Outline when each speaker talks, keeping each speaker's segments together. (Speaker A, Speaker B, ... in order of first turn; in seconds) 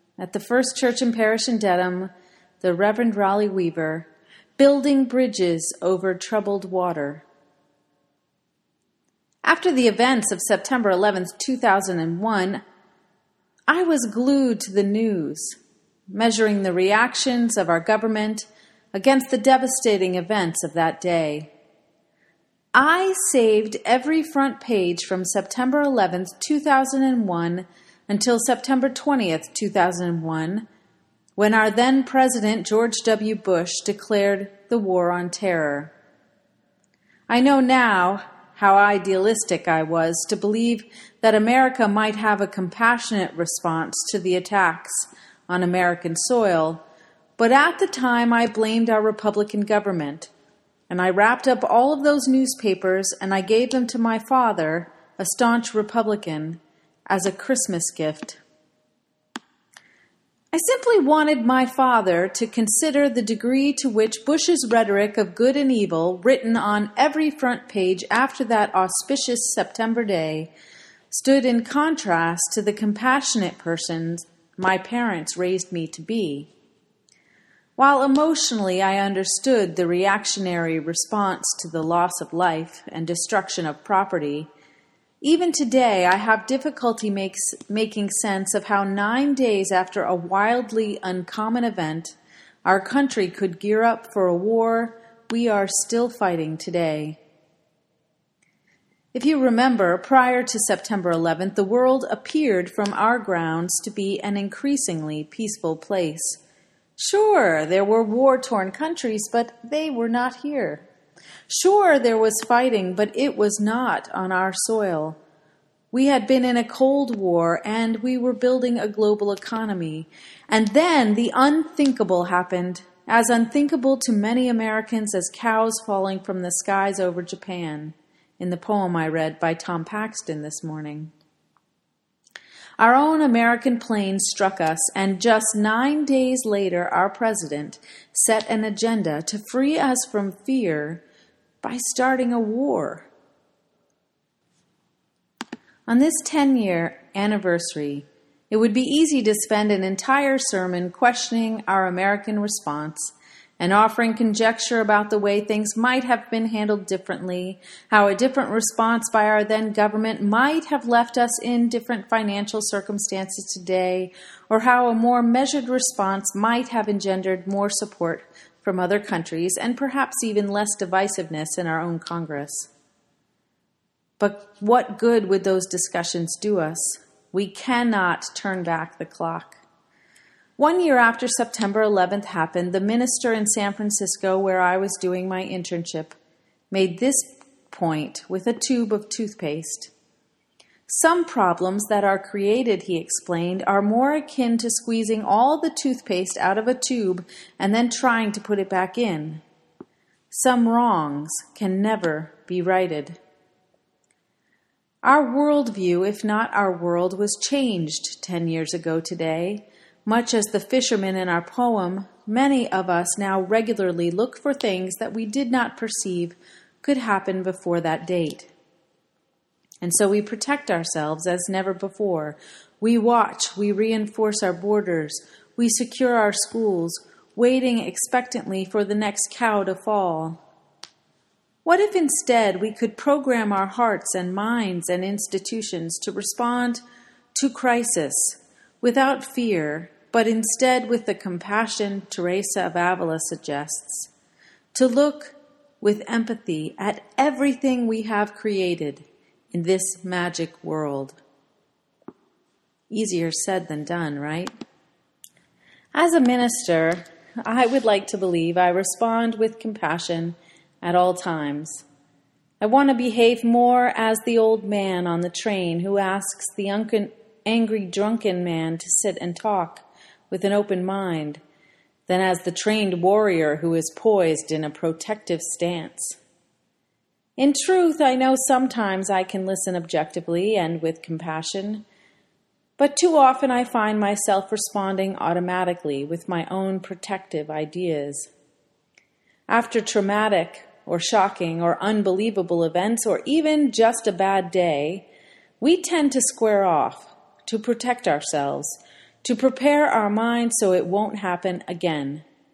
Speaker A: 0.2-7.2, 9.4-12.6, 13.7-15.6, 16.1-21.5, 22.7-30.7, 31.4-35.9, 37.3-46.8, 47.4-50.3, 50.9-58.4, 60.5-70.5, 71.1-76.5, 77.8-84.5, 85.2-97.2, 99.1-106.4, 107.0-110.9, 111.5-115.2, 115.9-131.1, 132.8-141.0, 141.6-143.1, 145.9-172.7, 174.2-179.6, 180.6-186.2, 186.7-189.9, 190.9-199.4, 200.3-203.2, 205.0-218.5, 219.8-230.4, 231.7-236.8, 237.3-244.1, 244.7-251.2, 252.9-254.5, 255.9-261.8, 262.6-271.4, 272.1-276.2, 277.4-281.9, 282.8-288.3, 289.5-295.1, 295.6-302.2